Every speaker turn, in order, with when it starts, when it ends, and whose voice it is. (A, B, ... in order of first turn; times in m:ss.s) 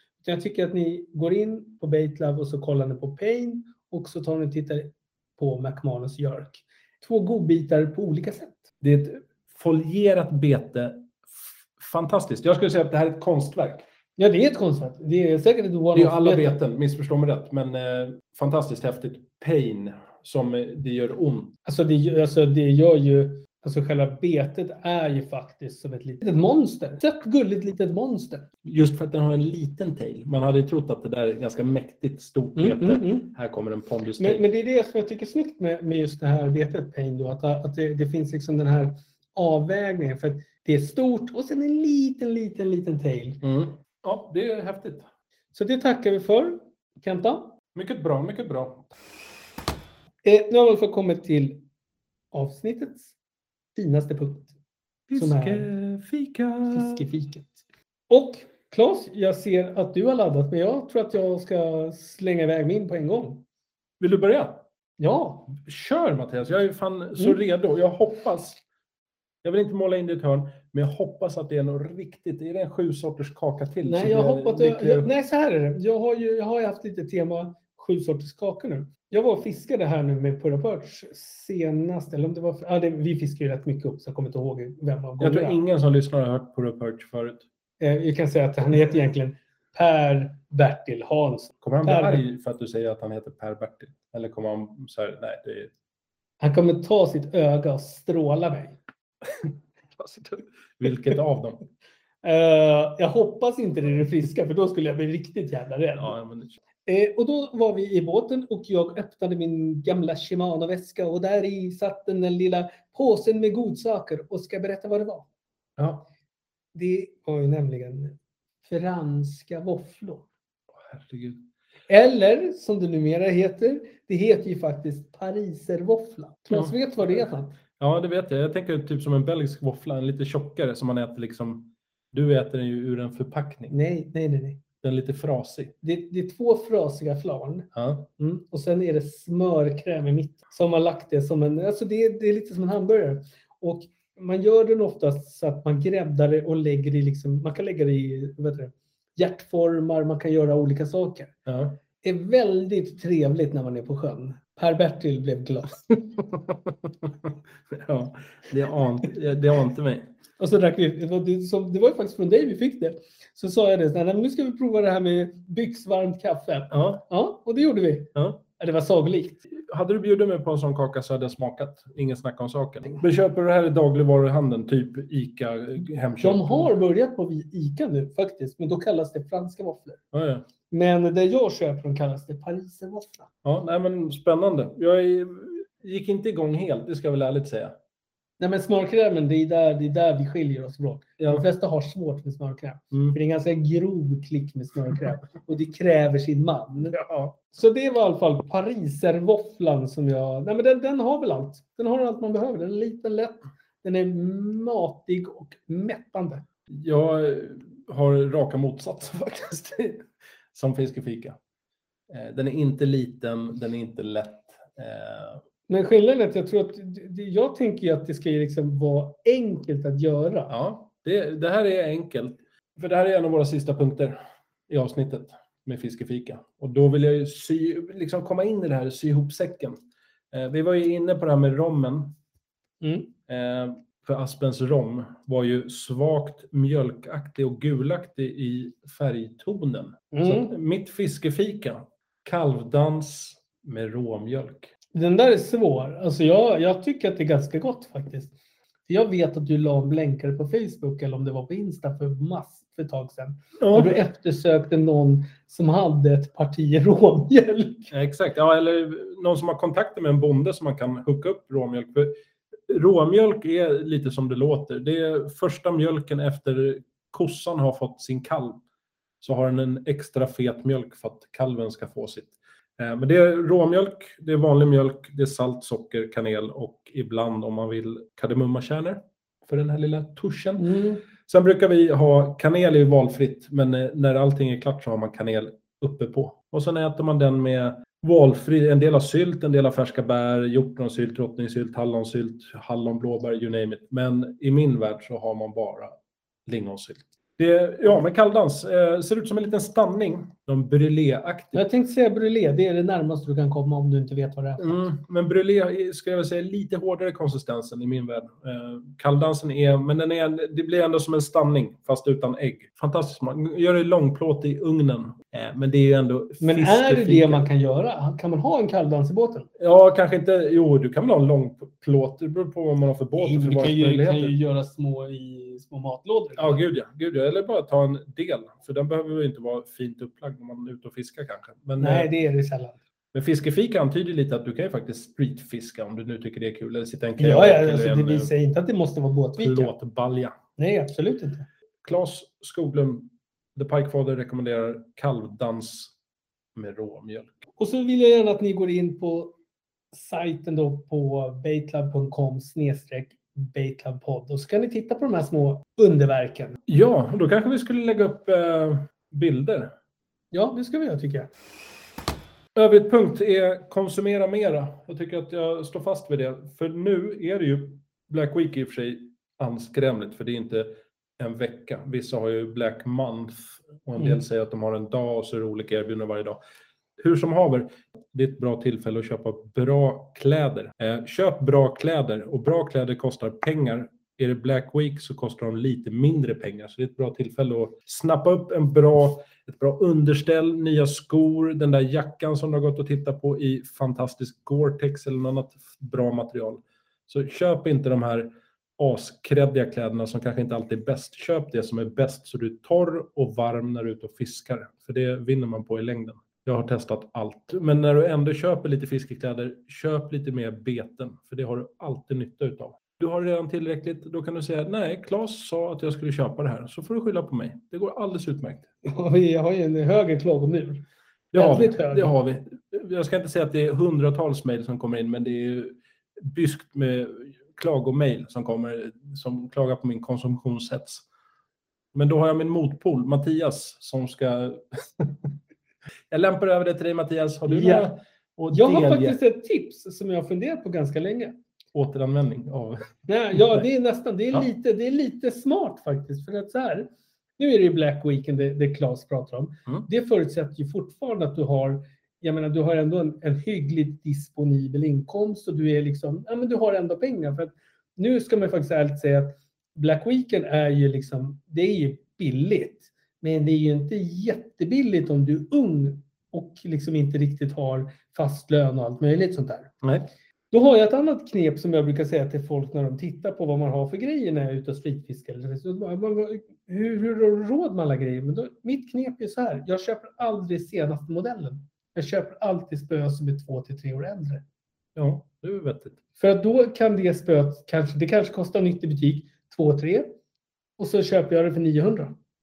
0:00.2-0:08.6 A
0:08.8-0:11.2 B
0:11.8-0:13.8 B
0:14.2-0:16.5 A
0:15.9-0:21.5 B
0:21.6-0:28.5 A
0:28.6-0:34.4 B
0:32.6-0:33.3 A
0:34.2-0:43.4 A
0:43.4-0:45.1 B
0:45.5-0:47.6 A
0:47.7-0:48.9 B
0:50.2-0:51.6 A
0:52.3-0:53.1 A
0:53.7-0:54.5 A
0:55.1-0:57.0 B
0:55.1-0:55.7 A
0:56.7-0:57.6 A
0:58.1-1:03.4 A
1:04.0-1:04.6 B
1:05.0-1:05.5 A
1:05.5-1:08.6 B
1:09.4-1:15.1 B
1:13.8-1:25.6 A
1:25.2-1:27.4 B
1:27.8-1:32.2 A
1:31.6-1:35.7 B
1:36.4-1:38.8 A
1:39.4-1:41.6 B
1:42.2-1:46.2 A
1:46.0-1:46.6 B
1:46.8-1:55.2 A
1:55.8-1:56.0 B
1:56.7-2:00.3 A
2:00.8-2:01.4 B
2:01.9-2:07.6 A
2:07.8-2:13.7 B
2:13.7-2:14.6 A
2:14.8-2:15.7 B
2:15.8-2:31.3 A
2:17.7-2:18.1 B
2:31.4-2:31.8 B
2:32.0-2:35.9 A
2:36.1-2:40.1 B
2:40.4-2:49.4 A
2:46.7-2:47.0 B
2:49.5-2:56.7 B
2:56.2-3:00.0 A
3:00.1-3:00.5 B
3:00.7-3:03.3 A
3:03.4-3:07.8 B
3:08.4-3:17.0 A
3:11.2-3:11.4 B
3:12.9-3:13.2 B
3:16.9-3:17.3 B
3:17.5-3:26.4 A
3:26.7-3:31.4 B
3:32.1-3:35.4 B
3:35.7-3:40.5 A
3:40.5-3:49.8 B
3:50.3-3:52.2 B
3:52.8-3:53.1 A
3:53.3-4:04.7 B
4:00.1-4:00.5 A
4:04.9-4:08.3 A
4:08.9-4:17.9 A
4:13.6-4:14.0 B
4:17.9-4:22.2 B
4:22.7-4:28.6 B
4:29.2-5:01.6 B
4:40.6-4:41.0 A
5:01.5-5:04.8 A
5:04.6-5:17.4 B
5:16.4-5:19.5 A
5:19.6-5:24.3 B
5:23.2-5:26.6 A
5:26.4-5:32.1 B
5:31.8-5:32.8 A
5:33.1-5:38.3 B
5:37.2-5:39.7 A
5:39.4-5:40.3 B
5:40.6-5:41.5 A
5:41.8-5:45.9 B
5:46.5-5:47.3 B
5:47.6-5:49.4 A
5:49.9-5:56.6 A
5:56.7-5:59.7 B
6:00.3-6:01.3 A
6:02.5-6:16.4 B
6:17.0-6:58.7 B
6:58.8-7:02.1 A
7:01.3-7:11.0 B
7:11.9-7:15.3 B
7:16.1-7:19.2 B
7:17.5-7:17.9 A
7:18.5-7:21.4 A
7:21.7-7:23.6 B
7:23.1-7:49.7 A
7:49.8-7:50.1 B
7:50.5-8:04.4 A
8:04.9-8:06.0 B
8:06.2-8:10.2 A
8:10.8-8:12.1 A